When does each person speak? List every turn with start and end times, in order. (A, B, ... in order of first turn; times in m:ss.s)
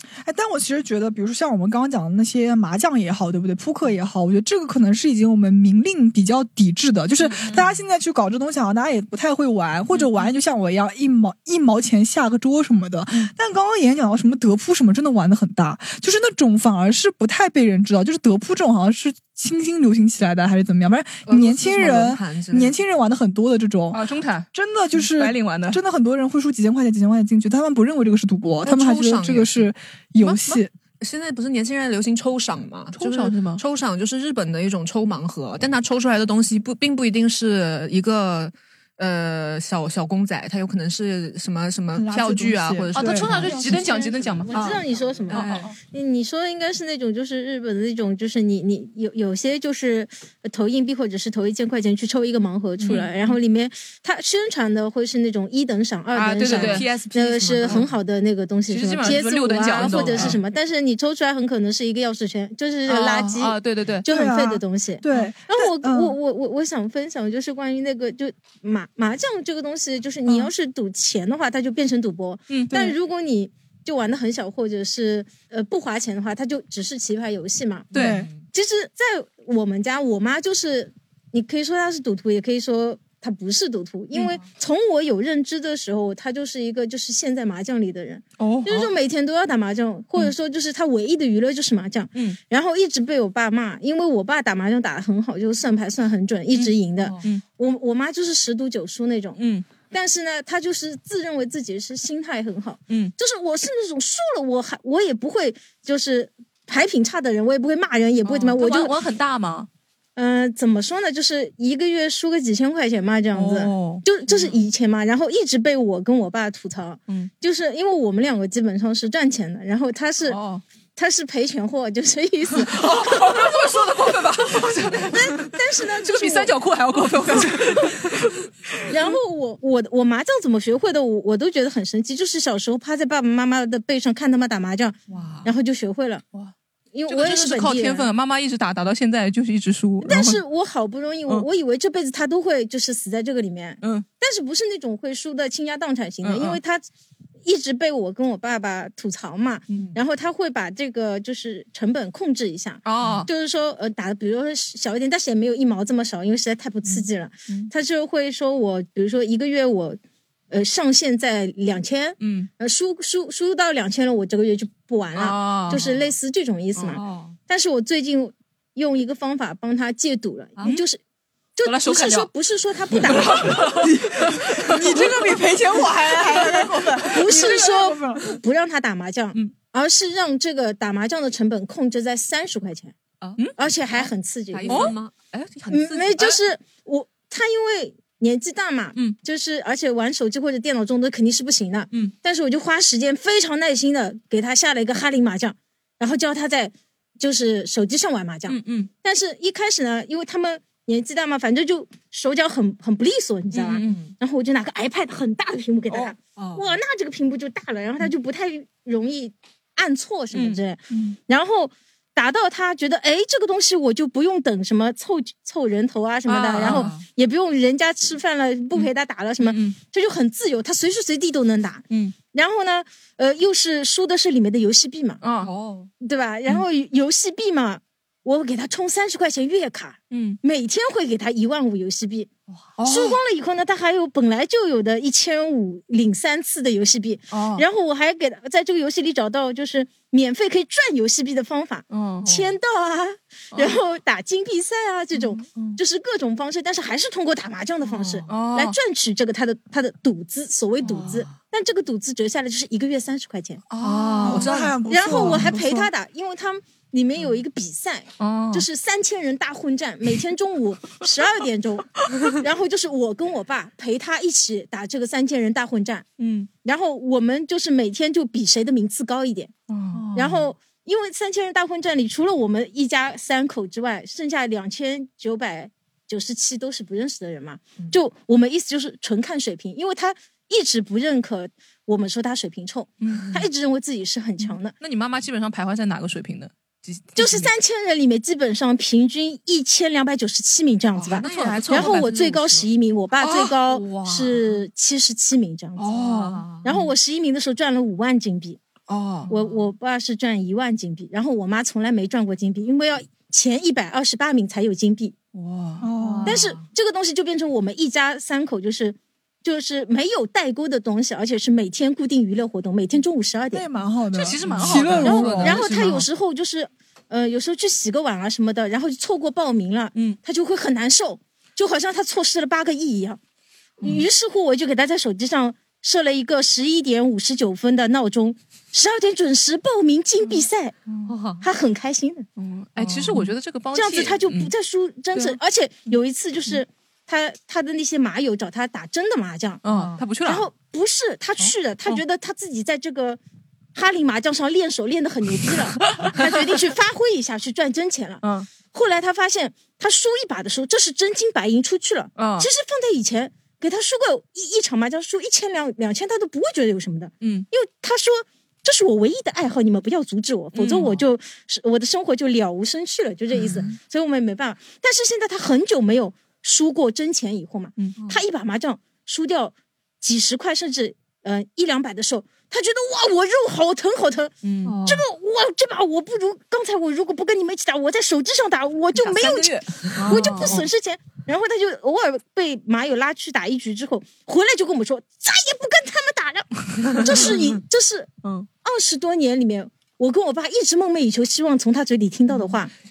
0:00.2-0:30.7 A
0:21.3-0:22.8 B
0:23.9-0:25.8 C
0:28.6-0:29.7 B
0:30.2-0:30.6 C
0:31.0-0:43.9 B
0:33.0-0:33.6 C
0:41.9-0:44.1 A
0:42.9-0:44.8 C
0:43.6-1:17.9 D
0:44.5-0:45.7 B
0:45.3-0:45.7 C
0:52.8-0:53.1 C
0:56.2-0:57.0 C
0:56.4-0:57.9 B
0:58.7-1:00.4 C
0:59.8-1:00.4 B
1:02.9-1:04.1 C
1:04.1-1:06.2 A
1:12.5-1:12.9 C
1:17.9-1:18.3 C
1:18.0-1:18.3 A
1:18.0-1:18.4 B
1:18.5-1:49.0 D
1:28.4-1:28.9 C
1:36.5-1:37.4 C
1:39.4-1:39.7 C
1:42.9-1:43.1 C
1:48.2-1:49.7 C
1:50.2-2:00.4 D
1:53.3-1:54.6 C
2:00.3-2:00.6 C
2:01.0-2:03.5 D
2:02.5-2:08.3 C
2:05.1-2:06.6 D
2:08.9-2:09.2 C
2:08.9-2:16.2 D
2:15.1-2:15.5 B
2:16.9-2:18.1 D
2:17.1-2:20.4 C
2:20.0-2:26.8 D
2:23.8-2:24.1 C
2:26.2-2:26.6 C
2:27.4-2:40.0 D
2:32.8-2:33.3 C
2:40.5-2:51.0 D
2:42.2-2:42.5 C
2:45.2-2:45.8 C
2:45.7-2:46.0 B
2:46.8-2:47.0 C
2:46.9-2:47.4 B
2:51.6-2:53.6 D
2:51.6-2:52.3 C
2:52.9-2:55.3 C
2:53.7-2:58.3 A
2:56.3-2:57.6 C
2:57.1-3:03.0 D
3:03.2-3:06.3 B
3:03.6-3:04.9 D
3:04.7-3:05.0 C
3:05.7-3:45.2 D
3:18.5-3:18.9 C
3:23.6-3:23.9 C
3:23.7-3:24.1 B
3:25.9-3:26.8 B
3:30.3-3:30.6 C
3:36.3-3:36.9 C
3:36.6-3:37.0 B
3:39.4-3:39.8 C
3:41.9-3:42.2 C
3:45.2-3:45.5 C
3:45.4-3:45.9 B
3:46.0-3:52.3 D
3:50.1-3:50.4 C
3:52.5-3:52.8 B
3:52.8-3:53.2 C
3:52.8-4:13.6 D
3:57.3-3:57.7 C
4:01.9-4:02.4 C
4:03.5-4:03.8 C
4:05.5-4:05.8 C
4:07.9-4:08.2 B
4:08.3-4:08.8 C
4:10.8-4:11.3 B
4:13.7-4:15.5 C
4:13.8-4:15.9 A
4:14.1-4:14.6 B
4:14.9-4:26.1 D
4:18.2-4:18.7 C
4:26.2-4:26.5 C
4:26.6-4:29.5 D
4:29.7-4:30.1 C
4:29.9-4:30.5 B
4:30.1-4:44.7 D
4:43.0-4:43.3 C
4:43.1-4:43.5 B
4:44.8-4:47.5 C
4:47.2-4:55.9 D
4:51.0-4:52.6 B
4:51.2-4:52.4 C
4:53.2-4:54.0 C
4:53.7-4:54.6 B
4:55.8-4:56.8 B
4:55.8-4:56.6 C
4:56.6-4:58.6 D
4:58.9-4:59.7 B
4:59.3-5:05.2 D
5:05.4-5:05.9 C
5:05.8-5:06.4 A
5:05.9-5:06.7 B
5:06.3-5:13.6 D
5:13.5-5:15.6 A
5:14.1-5:16.1 C
5:14.5-5:14.9 B
5:15.0-5:23.2 D
5:23.8-5:30.8 D
5:31.1-5:31.5 B
5:31.4-5:32.3 D
5:32.4-5:34.5 C
5:32.8-5:33.3 B
5:33.7-5:39.6 D
5:35.1-5:35.4 C
5:39.6-5:40.4 C
5:39.7-5:40.0 B
5:40.2-5:43.2 D
5:43.8-6:14.3 D
5:45.8-5:46.4 C
5:48.2-5:48.5 C
5:52.2-5:52.5 C
5:57.2-5:57.5 C
6:00.5-6:01.0 C
6:14.4-6:14.8 C
6:14.6-6:15.0 B
6:14.8-6:32.7 D
6:19.0-6:20.6 C
6:19.9-6:20.7 B
6:26.9-6:27.4 C
6:26.9-6:27.2 B